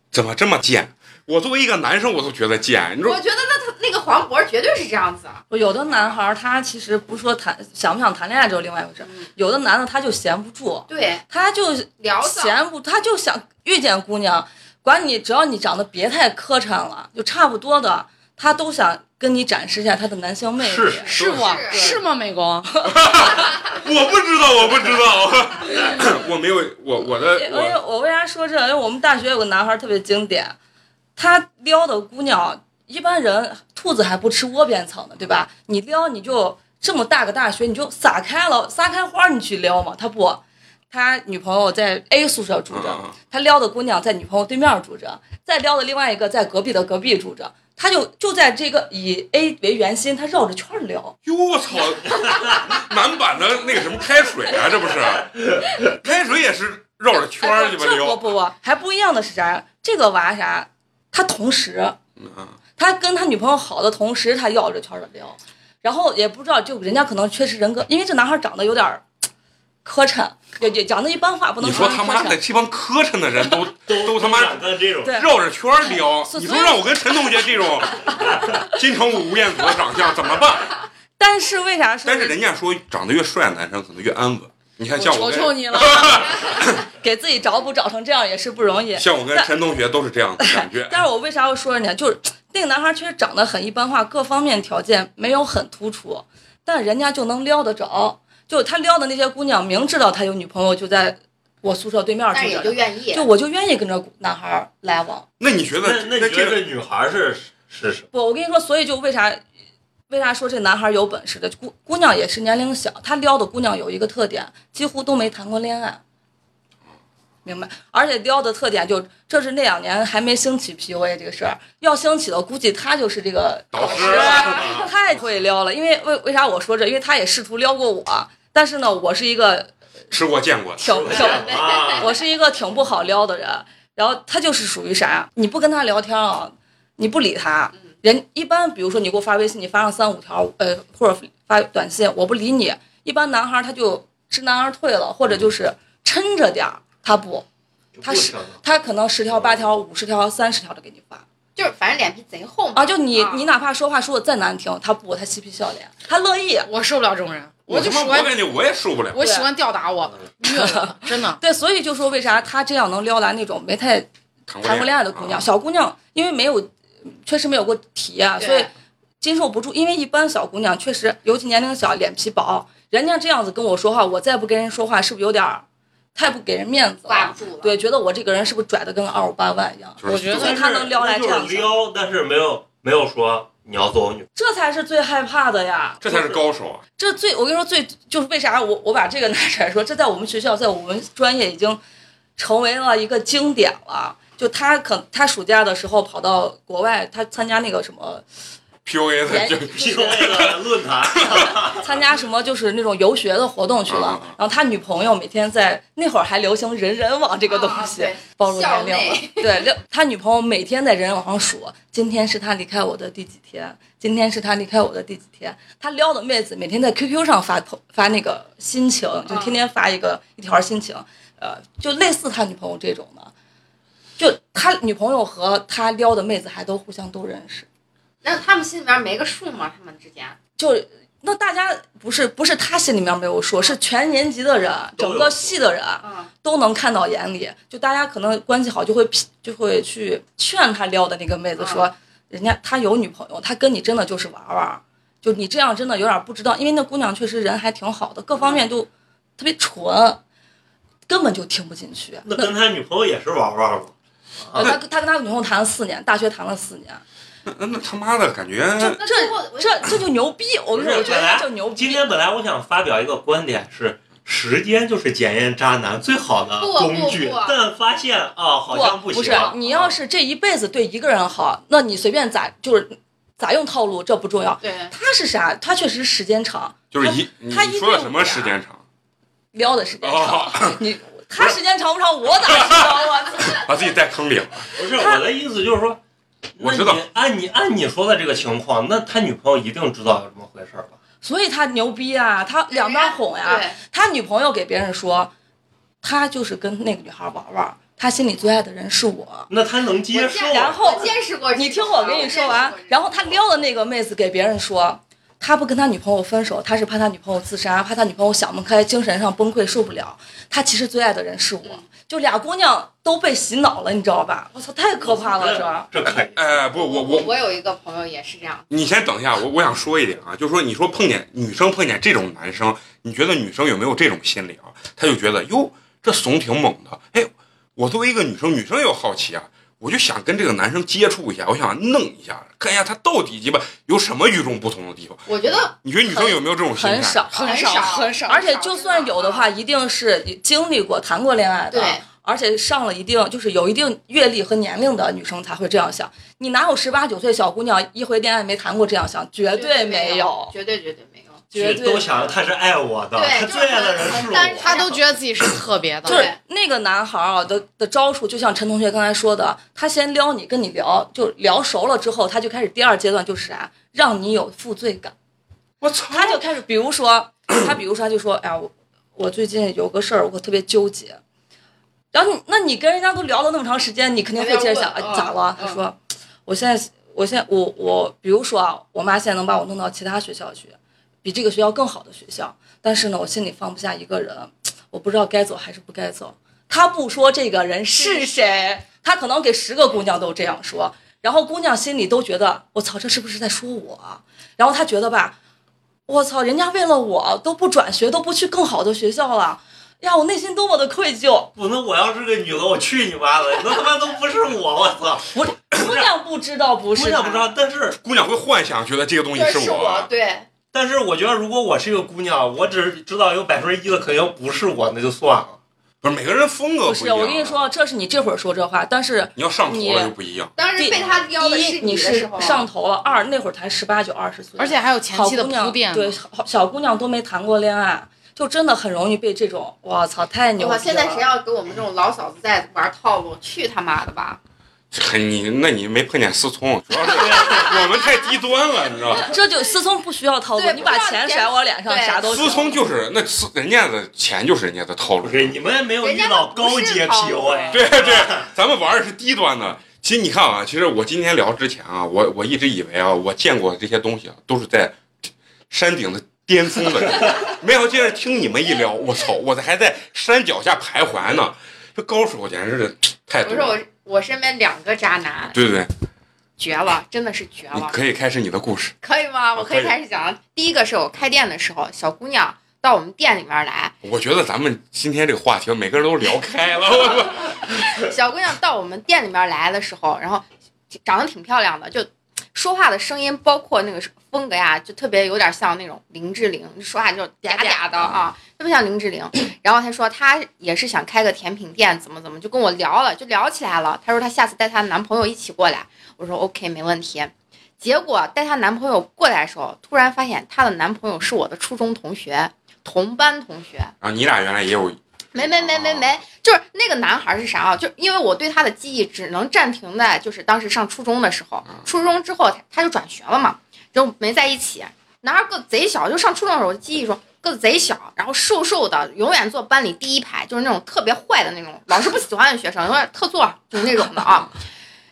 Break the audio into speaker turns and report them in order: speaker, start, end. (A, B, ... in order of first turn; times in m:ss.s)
0:00.1-0:03.2 A
0:03.0-0:06.2 B
0:05.5-0:21.1 C
0:09.0-0:09.3 B
0:10.9-0:11.2 B
0:12.0-0:12.6 B
0:20.6-0:21.2 D
0:21.1-0:22.7 E
0:21.2-0:22.0 B
0:21.2-0:21.5 A
0:22.8-0:27.8 A
0:27.3-0:30.6 C
0:31.2-0:51.2 C
0:42.7-0:43.1 A
0:51.2-0:58.3 A
0:57.4-1:02.0 C
1:02.2-1:02.6 A
1:02.8-1:09.0 C
1:09.8-1:12.4 C
1:11.6-1:20.8 A
1:13.9-1:15.2 D
1:16.0-1:17.4 C
1:18.2-1:18.5 C
1:21.2-1:22.4 C
1:22.0-1:26.8 A
1:25.0-1:26.0 E
1:25.8-1:29.5 C
1:28.9-1:31.0 A
1:30.4-1:45.2 C
1:42.3-1:43.3 B
1:45.4-1:46.6 A
1:45.8-1:48.1 D
1:48.1-1:49.4 C
1:50.1-1:56.0 C
1:57.4-2:09.7 C
2:03.7-2:04.9 A
2:03.8-2:04.9 D
2:10.1-2:11.1 A
2:10.8-2:27.4 C
2:10.8-2:12.1 D
2:27.9-2:28.8 D
2:28.0-2:31.2 C
2:29.3-2:29.7 D
2:31.6-2:33.5 B
2:32.7-2:36.7 C
2:36.6-2:38.4 E
2:37.7-2:39.2 A
2:39.1-2:41.4 E
2:39.2-2:39.5 C
2:40.4-2:44.1 C
2:44.5-2:45.5 A
2:44.6-2:48.7 C
2:48.4-2:48.7 B
2:49.2-3:01.8 C
2:57.1-2:57.7 B
3:00.0-3:00.5 A
3:00.0-3:00.5 E
3:00.3-3:04.3 D
3:04.4-3:06.3 C
3:06.0-3:06.8 A
3:07.0-3:11.8 C
3:12.4-3:18.2 C
3:18.8-3:20.6 A
3:19.3-3:20.2 C
3:19.7-3:21.9 D
3:21.2-3:21.5 A
3:21.8-3:43.3 C
3:23.9-3:24.3 A
3:27.5-3:29.6 B
3:39.3-3:39.6 B
3:44.2-3:47.6 C
3:48.2-3:50.4 B
3:50.6-4:10.2 C
3:55.0-3:55.6 D
3:56.0-3:56.3 B
4:01.6-4:01.8 B
4:08.4-4:08.6 B
4:11.1-4:12.5 C
4:12.2-4:14.8 D
4:14.5-4:17.0 C
4:17.4-4:19.0 A
4:18.8-4:20.0 B
4:18.8-4:22.0 C
4:20.7-4:30.0 D
4:20.9-4:21.3 B
4:26.6-4:27.6 B
4:28.7-4:38.6 C
4:34.6-4:34.9 E
4:36.9-4:38.8 A
4:39.5-4:43.6 C
4:40.0-4:40.8 A
4:42.4-4:44.7 A
4:44.7-4:46.0 D
4:45.0-4:45.2 C
4:46.6-4:51.0 D
4:46.6-4:47.0 A
4:51.2-4:55.3 C
4:52.7-4:53.8 B
4:56.0-4:59.5 C
4:59.5-5:01.0 D
5:00.1-5:03.4 B
5:00.5-5:15.9 C
5:15.0-5:16.6 D
5:16.1-5:17.3 A
5:16.7-5:18.6 B
5:18.7-5:37.2 A
5:35.3-5:35.7 B
5:36.2-5:50.5 C
5:37.3-5:38.6 E
5:37.4-5:39.5 B
5:41.7-5:42.0 B
5:49.5-5:51.4 B
5:51.5-5:52.3 C
5:51.5-5:55.0 D
5:53.1-5:54.9 B
5:54.4-5:56.3 E
5:56.0-5:56.3 B
5:56.0-6:05.1 C
6:05.8-6:06.4 A
6:06.1-6:11.2 C
6:12.1-6:35.3 C
6:14.4-6:15.8 E
6:27.9-6:28.7 B
6:36.1-6:41.5 C
6:41.5-6:46.0 D
6:45.3-6:47.5 C
6:46.9-6:48.0 D
6:48.0-6:50.1 A
6:49.3-6:50.5 B
6:50.7-6:55.6 D
6:56.0-6:57.6 A
6:56.8-7:00.1 C
6:59.4-7:00.5 A
7:00.6-7:02.6 B
7:00.8-7:11.3 C
7:04.6-7:06.2 E
7:10.6-7:14.4 B
7:14.9-7:19.2 A
7:17.2-7:17.6 D
7:17.6-7:18.0 B
7:19.2-7:22.7 C
7:20.6-7:22.7 B
7:22.3-7:25.6 A
7:25.2-7:28.5 D
7:26.0-7:27.8 B
7:27.7-7:35.0 A
7:35.7-7:43.8 A
7:43.4-7:45.6 B
7:45.5-7:45.9 A
7:46.6-7:47.9 B
7:47.7-7:49.0 A
7:49.0-7:54.0 B
7:49.5-7:50.0 A
7:54.0-7:57.8 A
7:57.9-8:00.4 B
8:01.0-8:23.9 B
8:08.0-8:08.2 A
8:24.0-8:26.2 A
8:25.3-8:44.6 B